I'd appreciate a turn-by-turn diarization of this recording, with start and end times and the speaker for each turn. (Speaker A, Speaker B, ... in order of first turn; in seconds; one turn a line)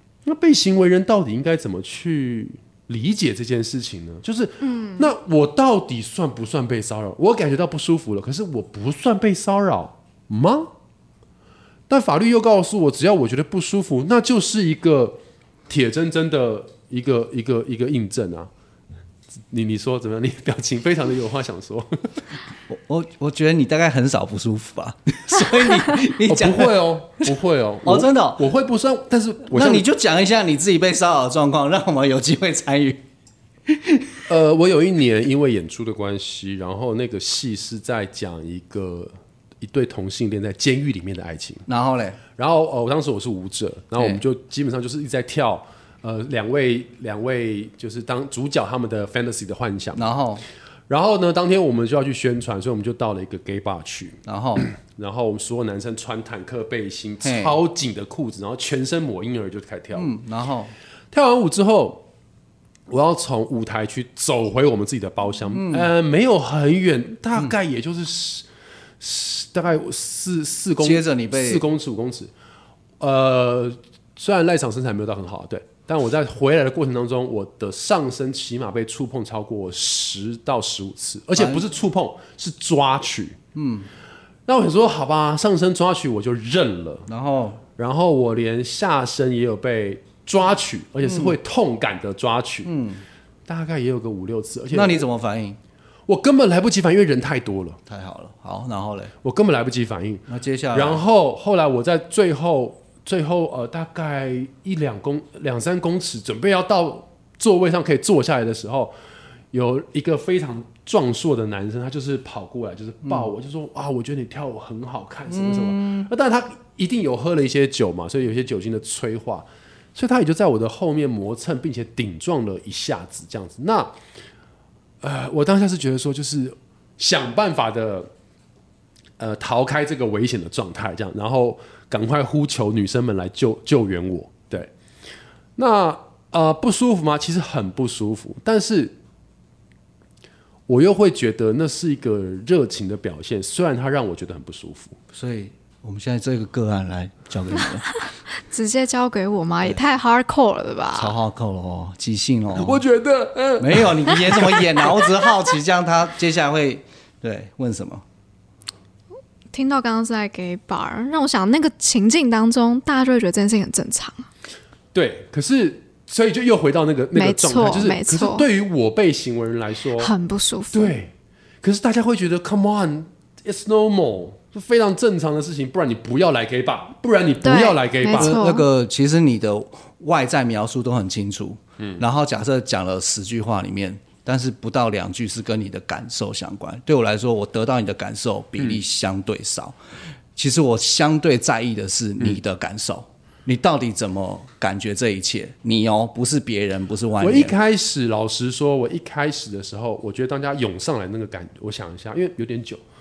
Speaker A: 0.2-10.7
Speaker B: 4.6-5.1
Speaker A: 11.9-15.2
Speaker A: 15.7-18.5
Speaker A: 19.5-22.1
Speaker C: 22.7-27.3
Speaker A: 26.2-29.9
Speaker C: 27.8-28.4
Speaker C: 29.4-33.0
Speaker C: 33.7-34.0
Speaker A: 34.3-41.6
Speaker C: 41.7-42.2
Speaker A: 42.3-50.0
Speaker C: 50.0-50.4
Speaker A: 50.9-60.1
Speaker C: 54.2-54.7
Speaker C: 57.2-57.6
Speaker C: 59.9-60.7
Speaker A: 61.1-62.0
Speaker A: 62.9-68.5
Speaker C: 65.5-65.9
Speaker A: 69.0-72.3
Speaker C: 70.8-71.6
Speaker A: 73.0-83.4
Speaker C: 81.3-81.7
Speaker C: 83.5-83.9
Speaker A: 84.5-87.1
Speaker C: 87.1-87.6
Speaker A: 87.8-92.7
Speaker C: 91.0-91.3
Speaker C: 92.6-93.0
Speaker A: 93.5-95.0
Speaker C: 94.7-95.6
Speaker A: 96.1-97.8
Speaker C: 97.9-99.1
Speaker A: 99.2-108.9
Speaker C: 100.3-101.0
Speaker A: 109.5-123.9
Speaker C: 115.3-116.1
Speaker A: 125.0-128.1
Speaker A: 129.2-134.7
Speaker A: 135.6-138.9
Speaker A: 140.7-145.0
Speaker C: 145.1-148.0
Speaker B: 148.5-151.1
Speaker C: 150.9-152.8
Speaker A: 152.5-154.7
Speaker C: 153.6-158.0
Speaker B: 159.5-164.3
Speaker A: 164.9-170.1
Speaker B: 167.1-168.4
Speaker B: 170.0-170.9
Speaker A: 170.7-178.3
Speaker B: 177.4-178.7
Speaker C: 178.2-189.8
Speaker C: 190.3-197.5
Speaker A: 197.2-202.8